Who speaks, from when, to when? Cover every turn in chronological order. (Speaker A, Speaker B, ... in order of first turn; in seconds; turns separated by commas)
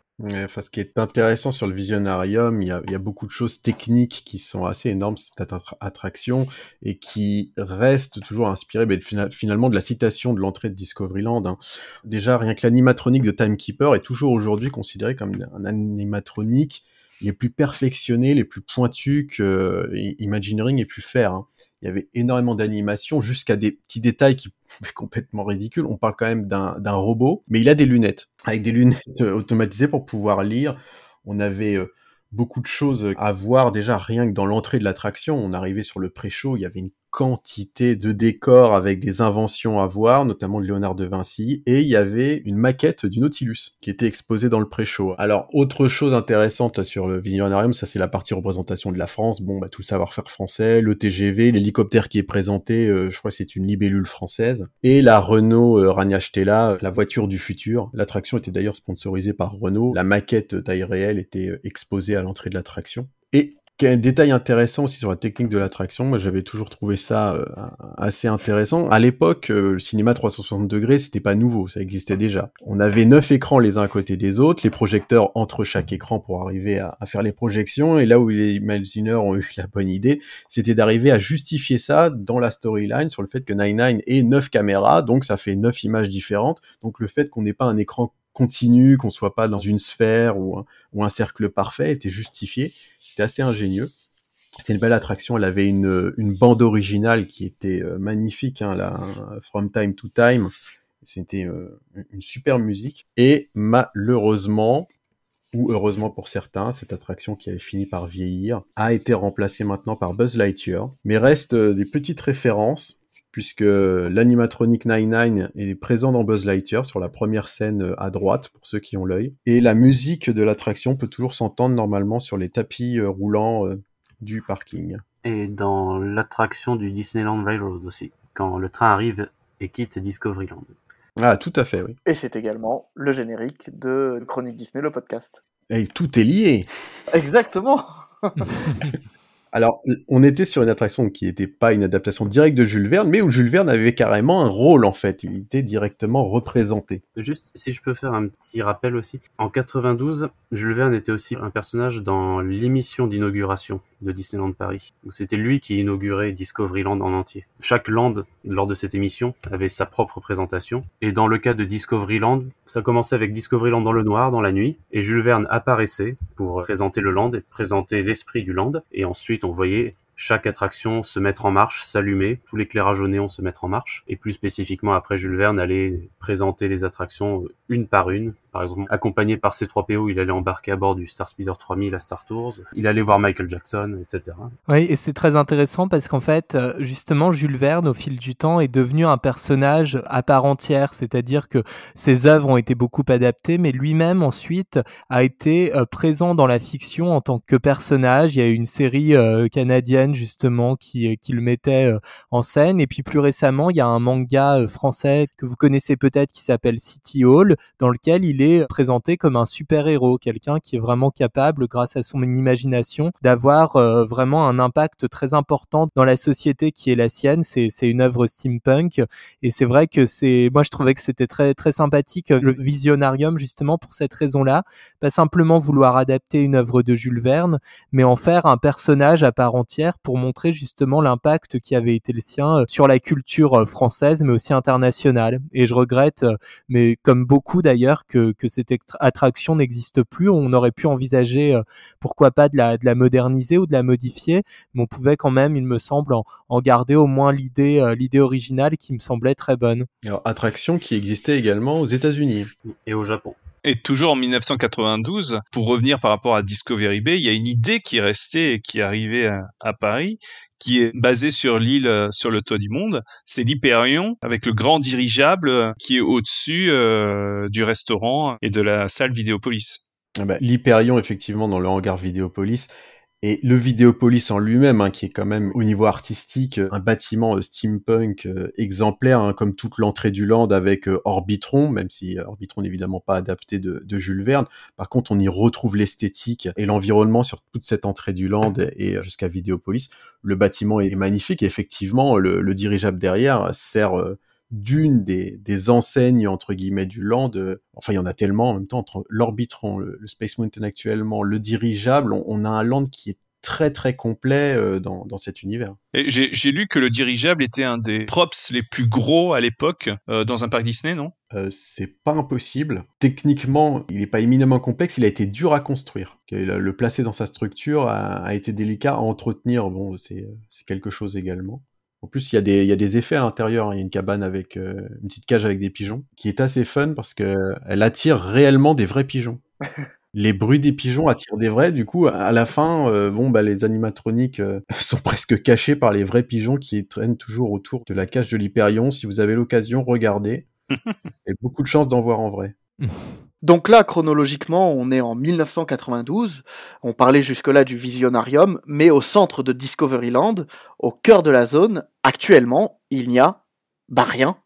Speaker A: 0.2-93.9, Speaker A: 94.6-104.9, Speaker A: 105.5-125.0, Speaker B: 125.2-130.7, Speaker A: 131.2-132.0, Speaker C: 132.1-135.4, Speaker A: 135.7-136.7, Speaker C: 137.1-138.9, Speaker A: 139.5-147.0, Speaker B: 147.2-184.5, Speaker D: 184.7-249.9, Speaker A: 250.0-252.5, Speaker B: 252.7-253.4, Speaker E: 253.7-269.8, Speaker A: 270.2-305.8, Speaker E: 305.9-311.1, Speaker A: 311.3-329.4, Speaker A: 330.1-340.5, Speaker A: 341.3-342.6, Speaker D: 342.8-343.1, Speaker C: 343.4-353.4, Speaker C: 353.9-354.4